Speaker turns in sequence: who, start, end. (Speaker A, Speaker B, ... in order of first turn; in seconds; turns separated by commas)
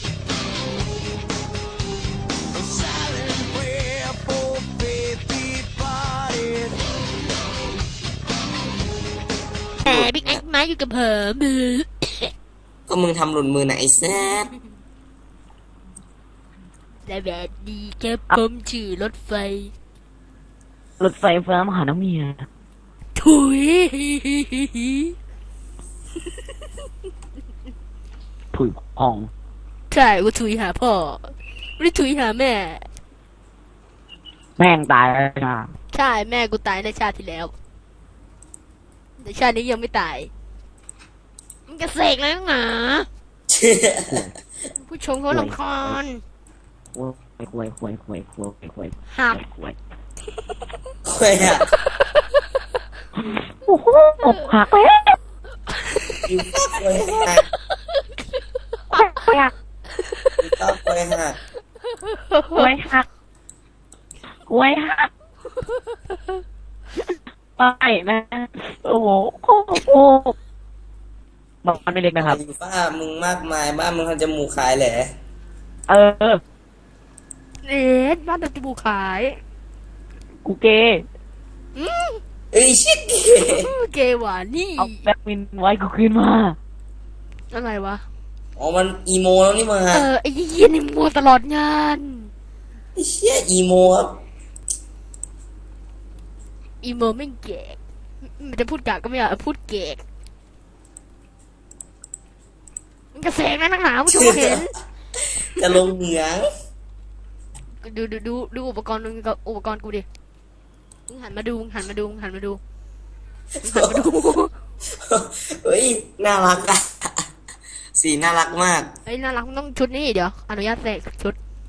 Speaker A: 2.5-6.8, Speaker B: 9.8-12.3, Speaker C: 9.9-10.4, Speaker C: 12.9-14.5, Speaker B: 17.1-19.7, Speaker D: 21.0-22.5, Speaker B: 23.2-25.1, Speaker D: 28.5-29.3, Speaker B: 29.9-32.9, Speaker D: 34.6-35.7, Speaker B: 35.9-37.5, Speaker B: 39.2-40.3, Speaker B: 41.7-43.1, Speaker C: 43.5-44.1, Speaker D: 44.1-44.3, Speaker B: 44.8-46.2, Speaker D: 45.3-46.0, Speaker D: 47.0-49.8, Speaker B: 49.1-49.4, Speaker C: 51.1-51.7, Speaker D: 53.2-55.2, Speaker C: 56.3-57.4, Speaker D: 58.9-59.5, Speaker C: 60.4-61.4, Speaker B: 62.1-62.6, Speaker D: 62.5-63.1, Speaker D: 64.5-65.1, Speaker D: 67.0-70.3, Speaker D: 71.6-72.4, Speaker C: 72.2-75.1, Speaker D: 75.9-76.4, Speaker B: 77.6-79.4, Speaker D: 80.4-81.1, Speaker B: 81.8-82.2, Speaker C: 82.5-83.7, Speaker B: 83.5-85.1, Speaker D: 84.8-86.6, Speaker B: 87.5-88.0, Speaker C: 88.6-90.1, Speaker B: 89.9-92.3, Speaker C: 93.0-94.2, Speaker B: 96.8-100.0, Speaker B: 103.1-104.7, Speaker C: 104.1-104.7, Speaker C: 105.5-106.5, Speaker B: 107.8-110.1, Speaker B: 111.1-112.6, Speaker C: 113.6-114.0, Speaker B: 113.6-114.5, Speaker C: 115.0-117.1, Speaker C: 118.0-118.9, Speaker B: 119.1-121.4